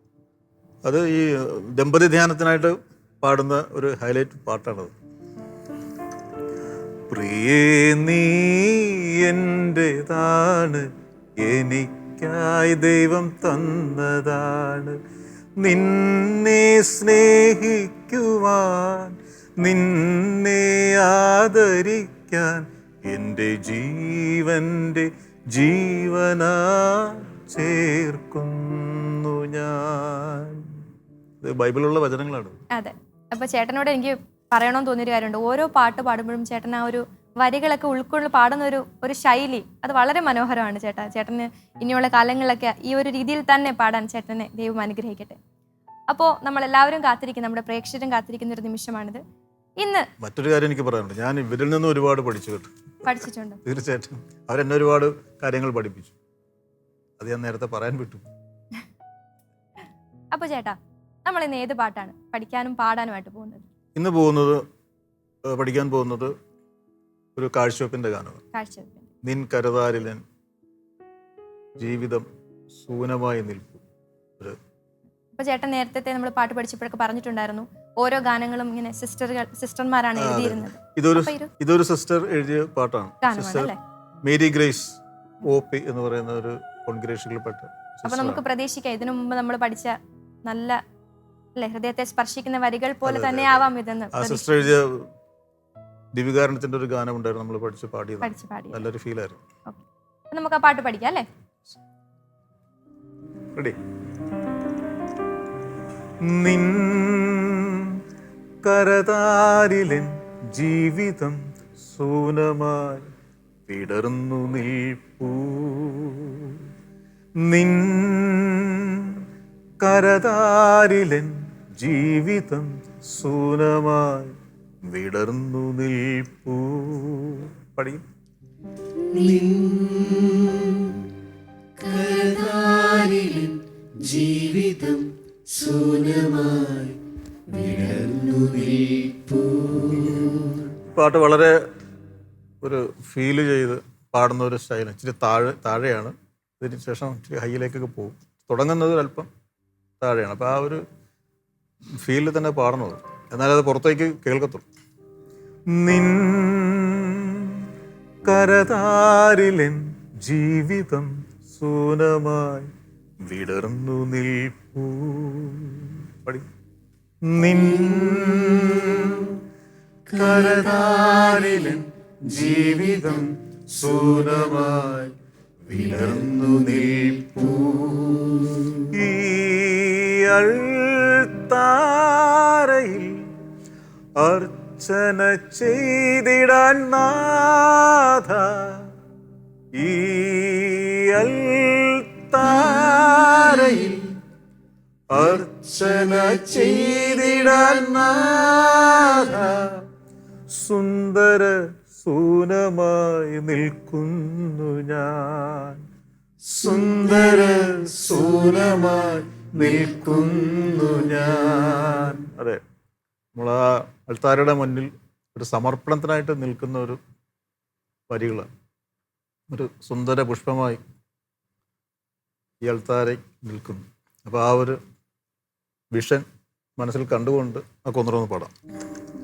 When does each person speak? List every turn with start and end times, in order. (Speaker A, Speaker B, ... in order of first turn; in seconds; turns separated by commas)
Speaker A: 0.8-4.9, Speaker A: 7.1-10.9, Speaker A: 11.4-15.0, Speaker A: 15.6-30.7, Speaker A: 31.4-32.6, Speaker B: 32.7-45.4, Speaker B: 46.1-49.2, Speaker B: 49.8-50.1, Speaker A: 50.2-52.7, Speaker B: 53.0-53.6, Speaker A: 53.6-56.1, Speaker A: 57.2-58.2, Speaker B: 60.3-63.6, Speaker A: 64.0-64.7, Speaker A: 65.5-66.3, Speaker A: 67.4-68.4, Speaker B: 68.5-69.1, Speaker A: 69.2-70.2, Speaker A: 71.8-73.8, Speaker B: 75.4-81.5, Speaker A: 80.2-83.7, Speaker B: 83.2-83.8, Speaker A: 84.2-88.4, Speaker B: 88.0-90.0, Speaker B: 90.5-90.8, Speaker B: 91.6-94.5, Speaker A: 93.0-95.1, Speaker A: 96.1-99.4, Speaker B: 98.2-98.8, Speaker B: 99.7-101.2, Speaker A: 106.2-108.0, Speaker A: 108.6-113.1, Speaker A: 113.7-116.6, Speaker A: 117.4-119.2, Speaker A: 119.8-128.0, Speaker C: 129.1-131.0, Speaker C: 131.8-137.0, Speaker C: 137.5-140.3, Speaker A: 140.9-141.6, Speaker A: 142.6-149.3, Speaker A: 150.0-150.8, Speaker A: 152.0-154.7, Speaker A: 155.7-157.7, Speaker A: 158.3-162.7, Speaker A: 163.2-166.5, Speaker A: 167.2-169.3, Speaker A: 170.1-175.1, Speaker C: 170.2-170.4, Speaker A: 175.7-178.1, Speaker A: 178.9-183.3, Speaker A: 184.2-188.9, Speaker A: 189.8-194.1, Speaker A: 195.1-199.8, Speaker A: 200.5-205.8, Speaker A: 206.5-212.6, Speaker A: 213.3-217.0, Speaker A: 218.1-218.5, Speaker A: 219.5-220.8, Speaker A: 222.6-224.8, Speaker A: 225.9-226.3, Speaker A: 226.8-228.5